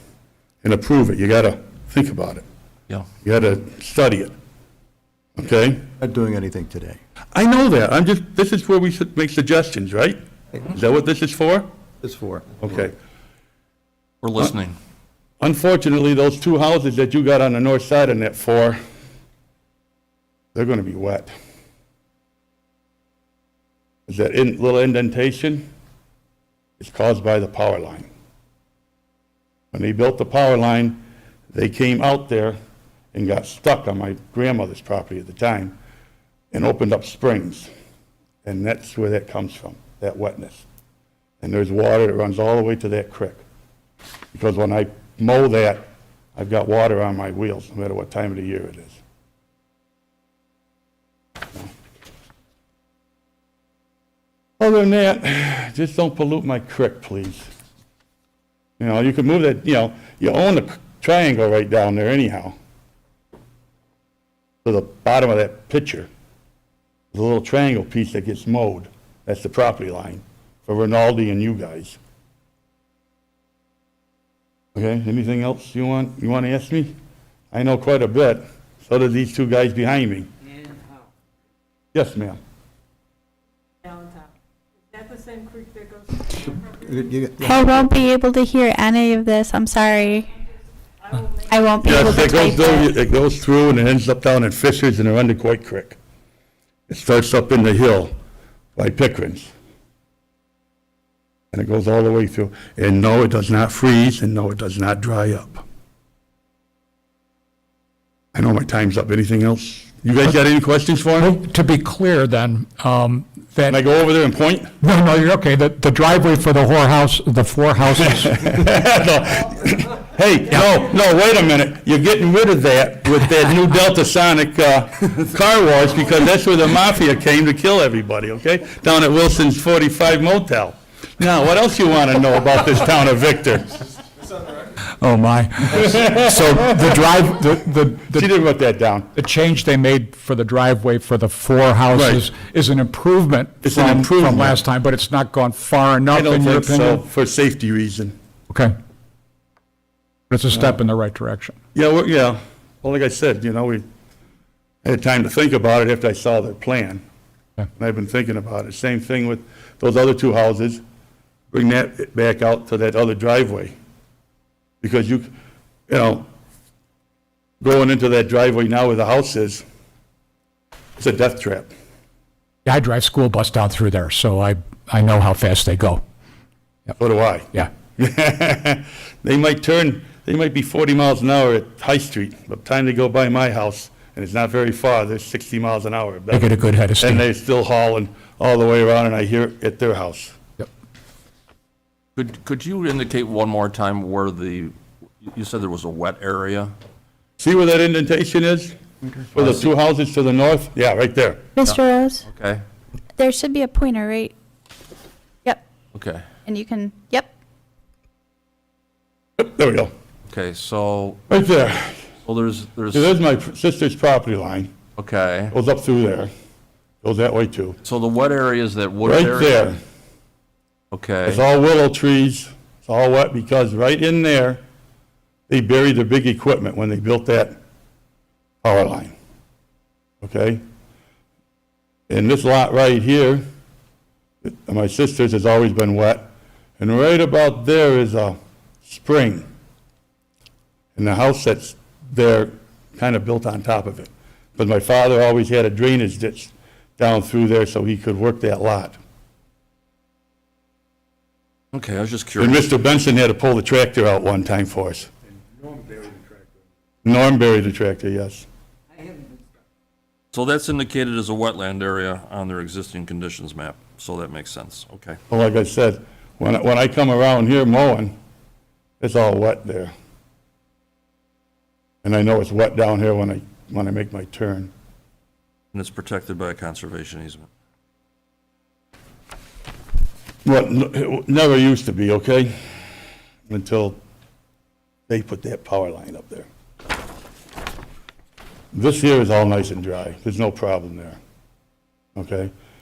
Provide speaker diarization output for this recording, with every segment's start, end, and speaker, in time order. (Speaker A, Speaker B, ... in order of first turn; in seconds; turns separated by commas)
Speaker A: 0.6-2.4, Speaker A: 3.2-4.3, Speaker A: 5.4-5.8, Speaker B: 6.0-7.0, Speaker A: 7.3-11.7, Speaker B: 12.0-12.6, Speaker A: 12.6-12.9, Speaker C: 14.2-14.8, Speaker A: 15.4-18.8, Speaker A: 20.5-21.3, Speaker A: 24.1-25.7, Speaker A: 26.8-28.1, Speaker A: 29.7-32.6, Speaker A: 33.1-35.8, Speaker A: 36.5-37.7, Speaker A: 38.5-40.6, Speaker A: 41.4-43.4, Speaker A: 44.3-45.8, Speaker A: 46.4-49.0, Speaker A: 54.6-57.5, Speaker A: 58.8-62.5, Speaker A: 64.6-66.1, Speaker A: 67.1-72.0, Speaker A: 74.8-76.9, Speaker A: 77.5-80.3, Speaker A: 81.9-82.4, Speaker D: 83.8-84.3, Speaker D: 84.9-87.2, Speaker B: 86.7-87.9, Speaker E: 87.4-90.3, Speaker D: 91.0-91.9, Speaker E: 91.5-92.9, Speaker A: 91.8-96.0, Speaker A: 96.9-98.1, Speaker A: 98.8-99.5, Speaker A: 101.5-105.6, Speaker A: 108.3-111.4, Speaker F: 111.2-113.8, Speaker A: 113.7-114.7, Speaker F: 114.8-118.5, Speaker A: 118.0-133.8, Speaker F: 135.0-138.3, Speaker A: 135.8-136.6, Speaker A: 138.1-139.1, Speaker F: 139.2-147.0, Speaker A: 141.9-142.3, Speaker A: 143.6-144.6, Speaker A: 146.1-148.2, Speaker F: 150.3-151.6, Speaker A: 151.8-153.8, Speaker A: 154.8-157.0, Speaker A: 157.8-160.8, Speaker A: 161.5-163.8, Speaker A: 164.8-165.3, Speaker A: 165.9-166.3, Speaker A: 167.6-169.6, Speaker A: 171.0-171.7, Speaker F: 172.7-176.0, Speaker A: 177.0-190.4, Speaker F: 186.3-187.3, Speaker C: 192.2-196.7, Speaker A: 197.4-198.8, Speaker A: 199.3-201.4, Speaker C: 199.4-199.7, Speaker E: 201.6-202.2, Speaker C: 201.6-202.6, Speaker E: 203.2-204.3, Speaker C: 205.9-206.2, Speaker E: 206.5-207.3, Speaker A: 209.4-209.9, Speaker C: 210.3-211.2, Speaker A: 211.3-212.1, Speaker C: 212.2-213.1, Speaker A: 212.9-214.7, Speaker C: 215.0-215.5, Speaker A: 215.5-216.3, Speaker A: 217.0-217.8, Speaker C: 217.8-219.7, Speaker A: 219.0-219.8, Speaker C: 220.9-221.4, Speaker A: 221.2-224.6, Speaker A: 225.5-227.6, Speaker A: 228.6-229.2, Speaker A: 230.2-230.6, Speaker A: 232.1-233.4, Speaker A: 234.4-239.5, Speaker A: 241.0-249.0, Speaker C: 251.7-252.7, Speaker A: 252.4-255.1, Speaker A: 257.0-258.5, Speaker C: 260.3-265.2, Speaker A: 265.3-268.1, Speaker A: 269.0-269.9, Speaker A: 272.0-274.7, Speaker C: 275.7-277.5, Speaker A: 280.4-282.6, Speaker A: 283.5-284.0, Speaker A: 285.1-286.5, Speaker A: 288.7-291.2, Speaker A: 292.2-292.5